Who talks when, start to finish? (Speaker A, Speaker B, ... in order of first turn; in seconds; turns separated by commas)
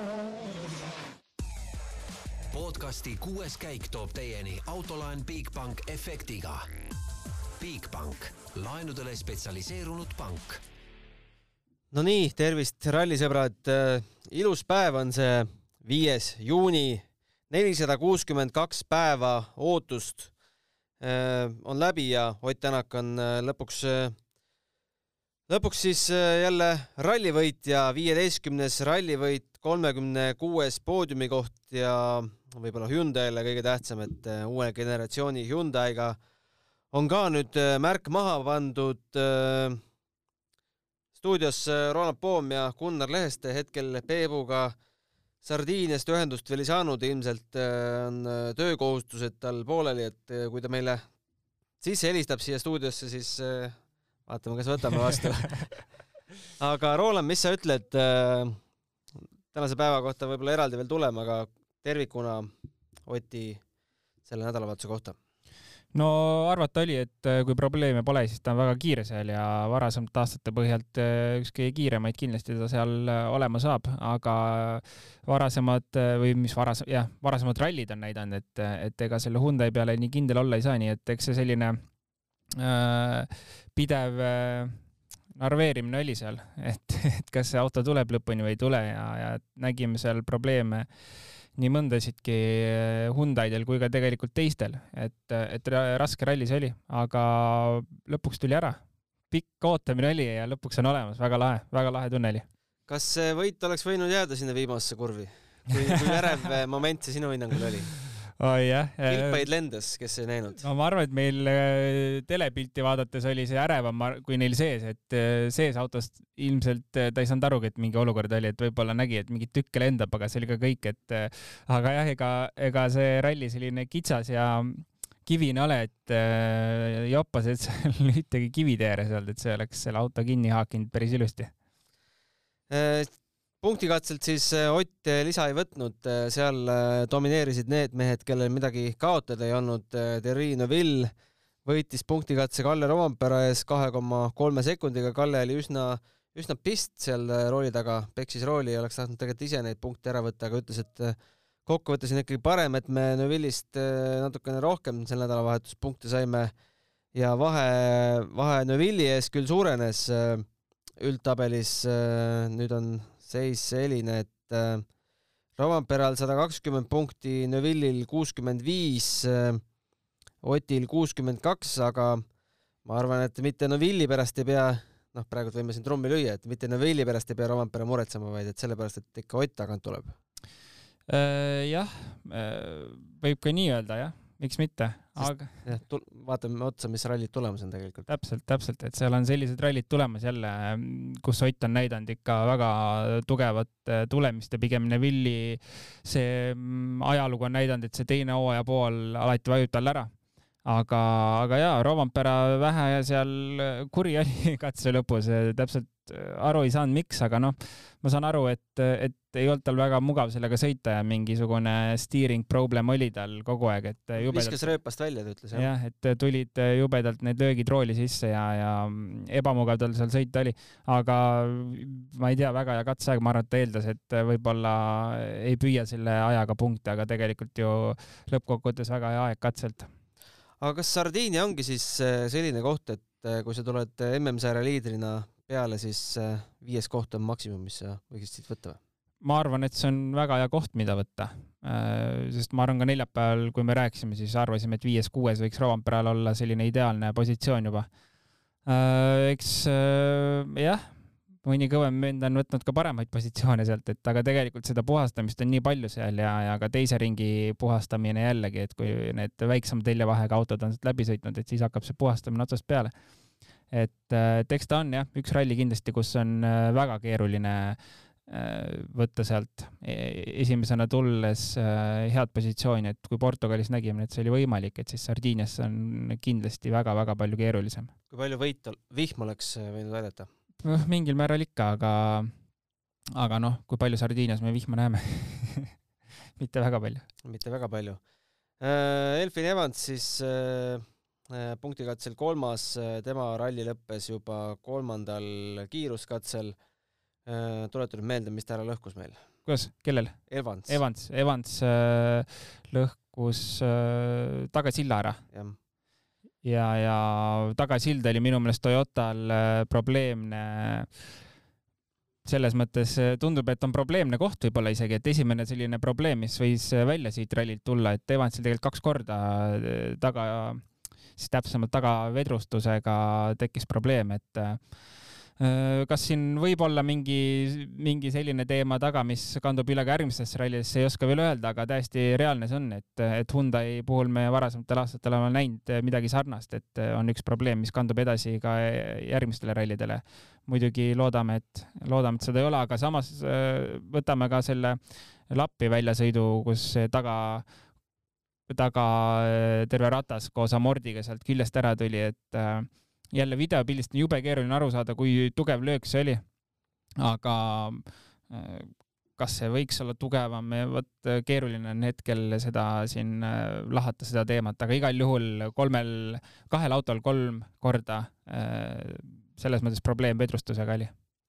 Speaker A: 2.5-6.7, Speaker A: 7.6-10.6, Speaker B: 11.9-20.3, Speaker B: 21.0-24.1, Speaker B: 25.5-36.2, Speaker B: 36.9-39.8, Speaker B: 41.1-44.8, Speaker B: 45.4-51.0, Speaker B: 51.8-55.7, Speaker B: 56.6-58.6, Speaker B: 59.5-62.5, Speaker B: 63.0-63.6, Speaker B: 64.2-65.2, Speaker C: 65.9-81.8, Speaker C: 82.6-84.8, Speaker C: 85.3-90.9, Speaker C: 91.5-98.8, Speaker C: 99.3-102.4, Speaker B: 102.9-107.9, Speaker C: 108.4-109.4, Speaker B: 109.1-110.6, Speaker C: 110.6-131.5, Speaker B: 132.7-141.1, Speaker B: 141.6-156.5, Speaker B: 157.1-160.5, Speaker B: 161.0-164.8, Speaker B: 165.6-169.6, Speaker B: 170.4-172.2, Speaker B: 172.8-180.1, Speaker C: 181.1-185.5, Speaker B: 185.2-188.1, Speaker C: 188.1-200.1, Speaker C: 200.6-214.7, Speaker B: 214.2-215.7, Speaker C: 215.5-229.9, Speaker B: 230.6-238.8, Speaker C: 239.2-247.9, Speaker C: 248.7-262.9, Speaker C: 263.7-277.9, Speaker B: 278.1-280.3, Speaker C: 280.6-282.3, Speaker C: 283.1-285.7, Speaker C: 286.4-287.0, Speaker B: 287.2-288.0, Speaker B: 288.6-296.6, Speaker B: 297.2-299.2, Speaker C: 299.4-305.2, Speaker B: 300.3-300.8, Speaker B: 305.3-305.6, Speaker C: 306.4-310.9, Speaker C: 312.2-324.6, Speaker C: 325.4-347.4, Speaker C: 348.5-356.2, Speaker C: 357.0-370.9